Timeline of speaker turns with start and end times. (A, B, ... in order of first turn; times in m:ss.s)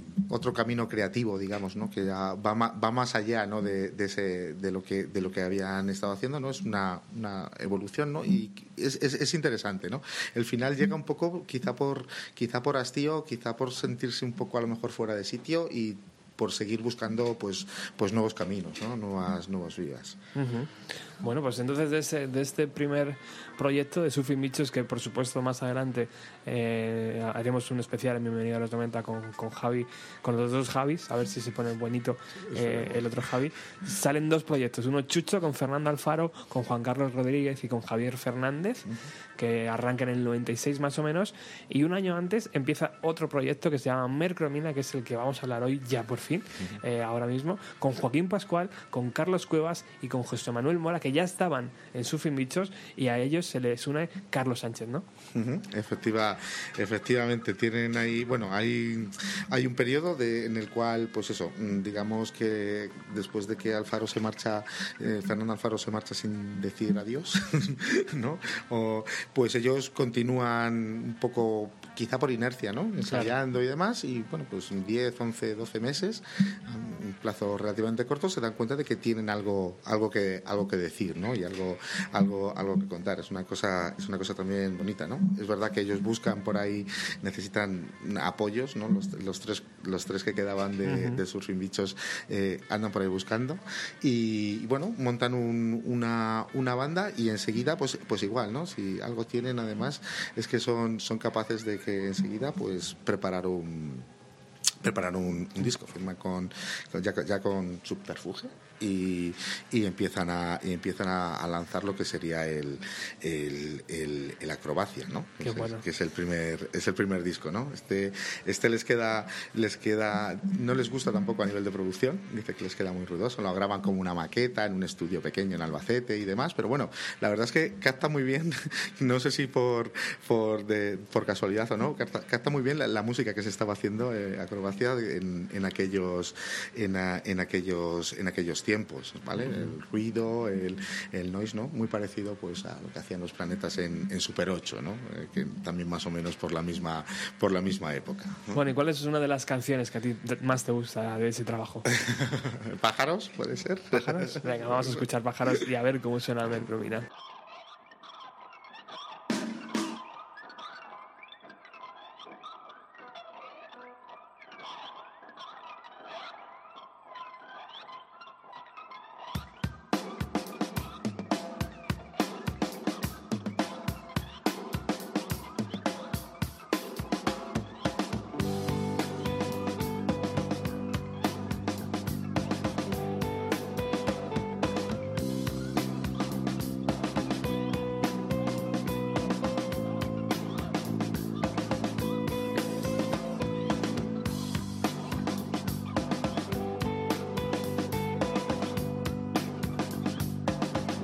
0:00.3-0:20.2 A
0:20.4-0:55.0 B
0:32.5-0:33.1 A
0:55.3-1:44.1 A
1:13.1-1:13.4 B
1:30.8-1:31.2 B
1:44.8-2:28.6 A
1:55.4-1:55.8 B
2:28.5-2:31.9 B
2:32.0-2:35.0 A
2:33.9-2:37.1 B